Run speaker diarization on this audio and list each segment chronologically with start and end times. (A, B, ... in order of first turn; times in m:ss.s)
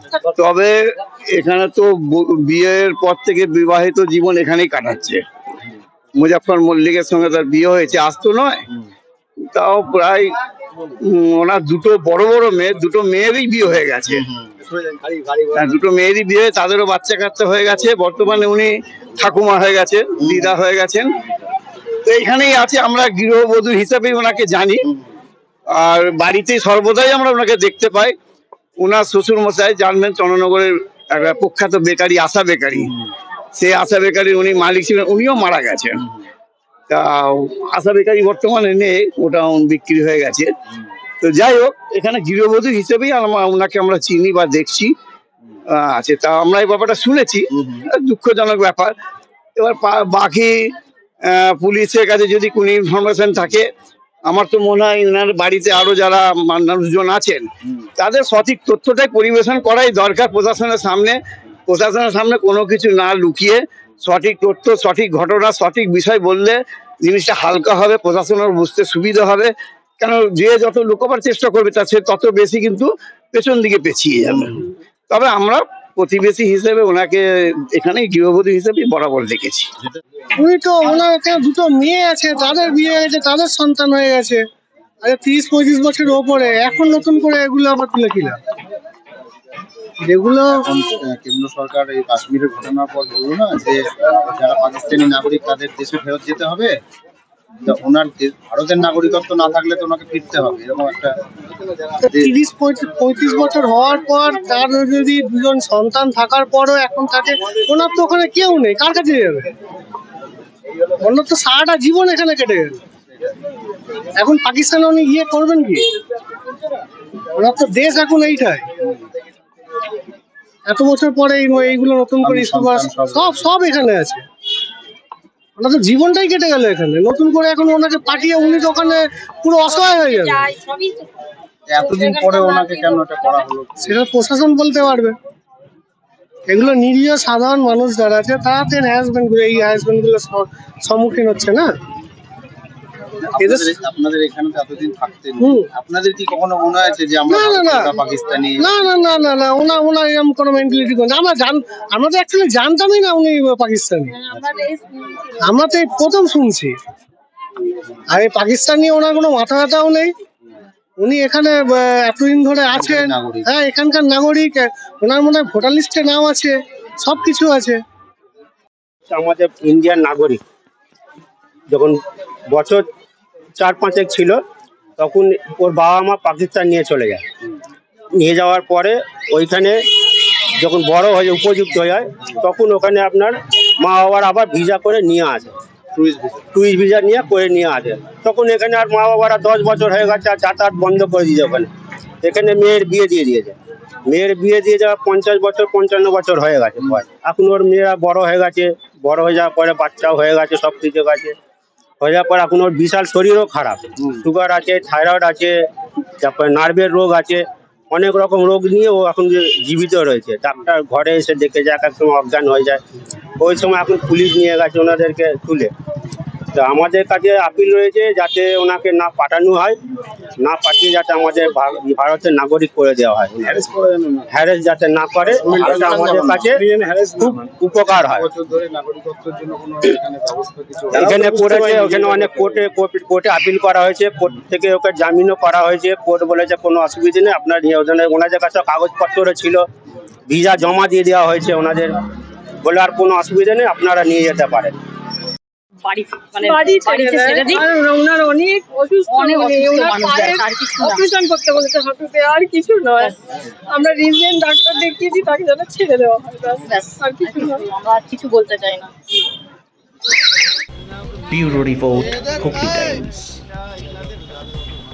0:00.4-0:05.2 A
0:06.1-0:08.6 A
0:09.5-0:10.3 A
0:11.0-0:14.2 A
0:14.3-0:15.6 B
0:15.5-0:21.1 A
0:22.0-0:24.8 A
0:25.7-0:28.2 A
0:28.8-0:32.9 A
0:33.5-0:36.0 A
0:36.9-0:40.5 A
0:41.2-0:44.9 A
0:45.7-0:48.9 A
0:49.6-0:50.7 A
0:51.2-0:53.7 A
0:54.3-0:57.4 A
0:58.0-1:19.7 A
1:20.4-1:24.4 C
1:25.0-1:28.4 C
1:30.0-1:30.6 C
1:30.6-1:36.7 B
1:37.6-1:41.1 B
1:42.2-1:49.5 C
1:51.0-1:52.8 C
1:54.2-1:55.8 C
1:57.4-1:58.6 C
2:00.7-2:04.2 C
2:02.2-2:03.5 B
2:05.6-2:10.5 C
2:09.7-2:11.0 D
2:11.7-2:14.0 B
2:11.8-2:13.0 D
2:13.9-2:15.2 C
2:16.5-2:21.7 C
2:23.2-2:28.7 B
2:27.3-2:27.9 C
2:28.6-2:34.2 C
2:34.6-2:35.3 D
2:35.4-2:36.8 C
2:38.1-2:40.1 C
2:41.0-2:47.8 C
2:42.7-2:43.5 B
2:49.1-2:50.4 E
2:51.7-2:52.0 E
2:52.5-2:52.8 E
2:53.6-2:54.4 E
2:55.0-2:57.2 E
2:58.2-2:59.8 E
3:00.6-3:05.5 E
3:06.0-3:06.4 B
3:06.5-3:11.7 E
3:12.2-3:13.6 E
3:14.1-3:21.3 E
3:22.0-3:25.6 E
3:26.2-3:32.8 E
3:33.4-3:35.7 E
3:36.5-3:39.8 E
3:40.4-3:43.6 E
3:43.4-3:44.3 B
3:44.3-3:46.6 E
3:45.4-3:47.4 B
3:47.2-3:48.3 E
3:48.1-3:52.6 B
3:50.9-3:59.6 E
4:00.3-4:02.0 E
4:02.6-4:04.8 E
4:05.8-4:07.6 D
4:06.3-4:13.1 F
4:07.0-4:07.5 C
4:09.1-4:11.1 D
4:13.7-4:17.7 F
4:16.6-4:18.9 D
4:21.3-4:23.4 G